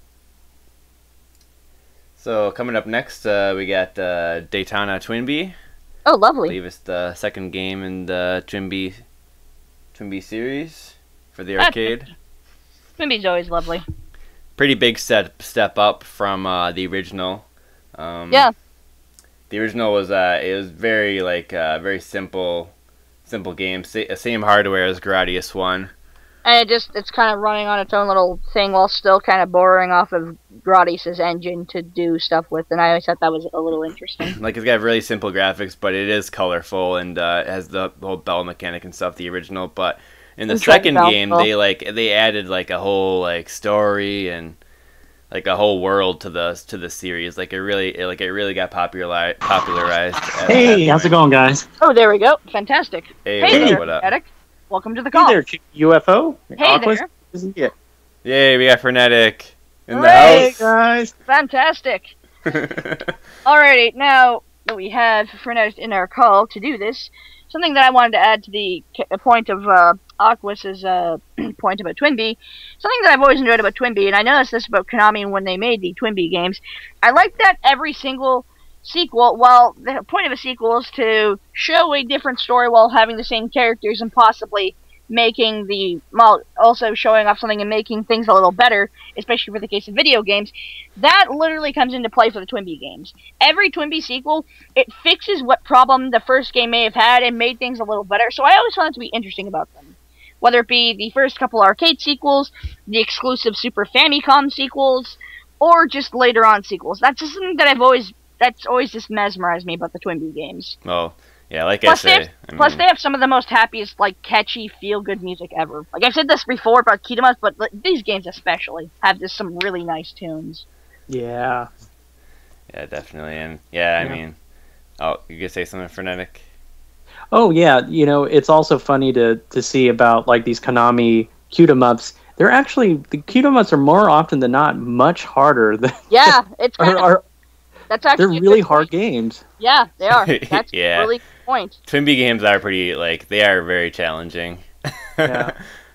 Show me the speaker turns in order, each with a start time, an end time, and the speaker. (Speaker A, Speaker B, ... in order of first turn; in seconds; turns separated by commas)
Speaker A: 2.2-5.6, Speaker B: 6.1-6.6, Speaker A: 6.5-9.0, Speaker A: 9.9-12.1, Speaker B: 11.6-12.0, Speaker B: 13.0-13.8, Speaker A: 14.6-18.5, Speaker A: 19.5-22.7, Speaker A: 23.3-25.9, Speaker B: 26.4-34.4, Speaker A: 34.3-44.6, Speaker B: 40.5-41.5, Speaker A: 45.3-51.1, Speaker C: 50.4-51.6, Speaker B: 51.8-55.4, Speaker A: 53.2-54.1, Speaker C: 53.5-53.8, Speaker C: 55.1-57.7, Speaker B: 56.6-57.1, Speaker A: 58.2-60.5, Speaker B: 59.9-60.6, Speaker C: 60.1-61.1, Speaker B: 61.3-62.1, Speaker A: 62.5-63.1, Speaker B: 63.4-110.8, Speaker A: 110.8-112.8, Speaker B: 111.8-120.6, Speaker C: 121.1-121.7, Speaker A: 122.7-124.4, Speaker A: 125.0-126.4, Speaker C: 127.3-137.2, Speaker B: 136.1-137.1, Speaker B: 137.9-138.9, Speaker C: 138.2-139.4, Speaker B: 139.6-141.8, Speaker A: 140.1-141.1, Speaker A: 141.9-144.7, Speaker A: 145.2-145.5, Speaker C: 145.2-145.6